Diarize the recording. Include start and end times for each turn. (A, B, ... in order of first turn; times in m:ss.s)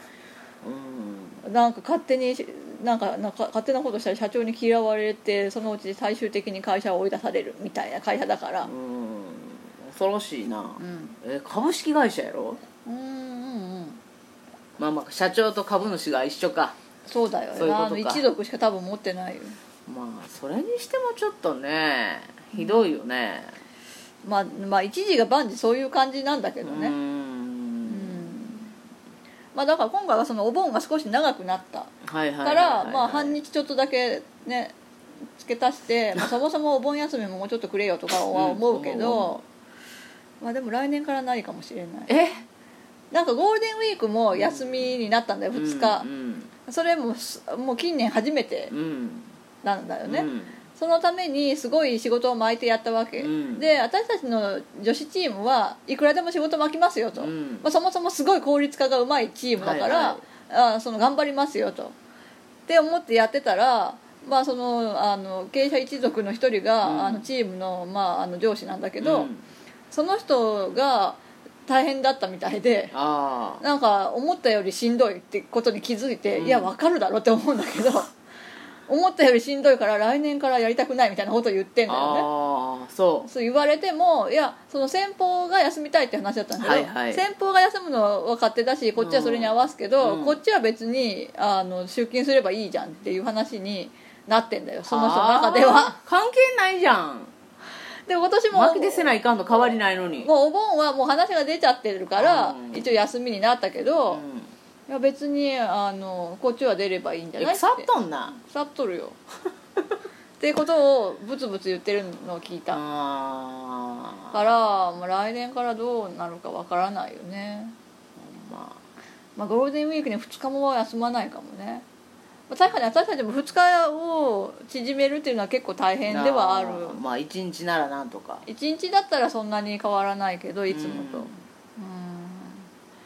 0:00.6-0:01.4 A
0:01.4-0:08.7 B
0:08.6-0:12.6 A
0:10.8-0:11.2 B
0:12.8-0:14.0 B
0:14.8-0:16.8 A
0:17.1-0:19.6 B
0:17.5-0:18.2 A
0:19.8-0:23.6 A
0:22.5-0:23.0 B
0:24.2-0:27.0 B
0:26.6-0:28.3 A
0:27.9-0:28.7 B
0:29.5-0:34.8 B
0:32.0-0:33.4 A
0:35.4-0:39.4 B
0:38.3-0:39.4 A
0:40.4-0:42.1 B
0:42.1-0:42.4 A
0:43.1-0:46.0 B
0:44.3-0:44.9 A
0:45.5-0:46.5 A
0:46.6-0:48.7 B
0:48.7-0:49.3 A
0:49.6-1:01.9 B
0:50.0-0:50.6 A
0:53.2-0:53.7 A
0:57.2-0:57.7 A
0:59.6-1:00.2 A
1:02.7-1:09.3 B
1:06.8-1:07.2 A
1:09.0-1:09.4 A
1:09.9-1:12.9 B
1:12.9-1:13.6 A
1:13.6-1:18.1 B
1:16.3-1:16.7 A
1:18.9-1:22.3 B
1:21.9-1:23.3 A
1:23.2-1:36.0 B
1:26.6-1:27.2 A
1:29.0-1:30.4 A
1:34.8-1:37.3 A
1:38.1-1:44.2 B
1:38.5-1:40.3 A
1:42.2-1:43.0 A
1:44.1-1:44.5 A
1:44.9-1:49.2 B
1:47.4-1:48.4 A
1:50.4-1:52.8 B
1:52.7-1:54.4 A
1:54.3-1:57.7 B
1:58.2-1:58.8 A
1:59.4-2:01.8 B
2:02.5-2:07.0 B
2:06.1-2:08.4 A
2:08.4-2:12.7 B
2:10.7-2:11.4 A